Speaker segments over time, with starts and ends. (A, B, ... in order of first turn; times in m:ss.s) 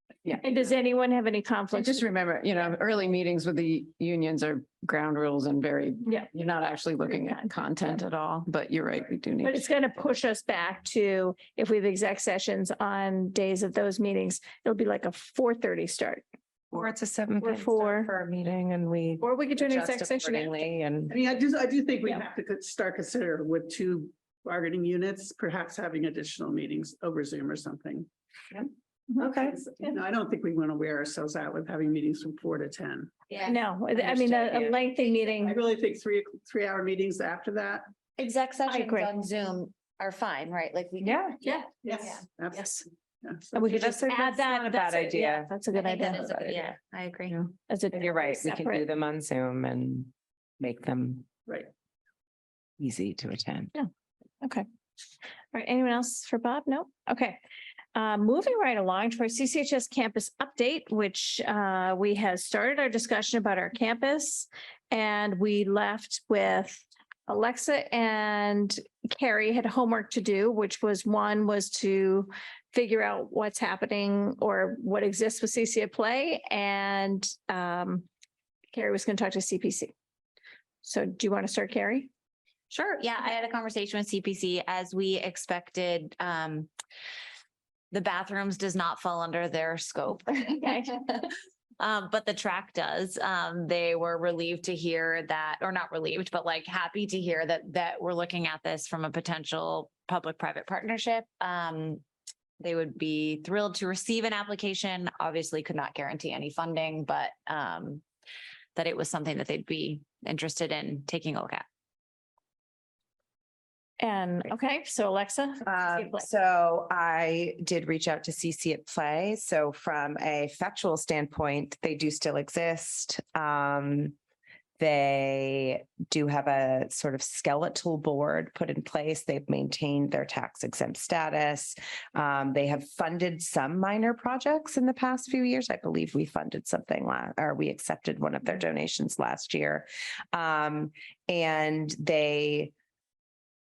0:00.4-0:02.1 A
0:01.7-0:09.6 B
0:07.1-0:07.5 A
0:09.4-0:16.2 A
0:16.7-0:21.2 C
0:17.4-0:18.1 A
0:19.2-0:20.5 A
0:21.1-0:28.1 D
0:29.2-0:29.6 C
0:29.4-0:33.1 D
0:33.3-0:33.6 E
0:33.4-0:35.6 A
0:34.0-0:34.7 C
0:35.3-0:37.9 D
0:38.2-0:42.2 E
0:38.7-0:39.1 A
0:41.0-0:41.4 C
0:41.8-0:43.9 D
0:42.5-0:42.8 A
0:43.5-0:46.3 A
0:43.6-0:46.8 C
0:45.7-0:47.4 E
0:47.3-0:51.3 C
0:47.7-0:48.8 A
0:52.8-0:53.7 C
0:55.5-0:57.4 A
0:57.9-1:18.1 A
1:18.7-1:19.9 A
1:20.8-1:22.1 A
1:22.7-1:26.7 E
1:27.9-1:31.3 E
1:31.8-1:42.0 E
1:42.6-1:48.0 E
1:48.8-1:51.6 E
1:54.0-1:56.3 A
1:55.6-2:04.2 C
2:04.8-2:22.7 C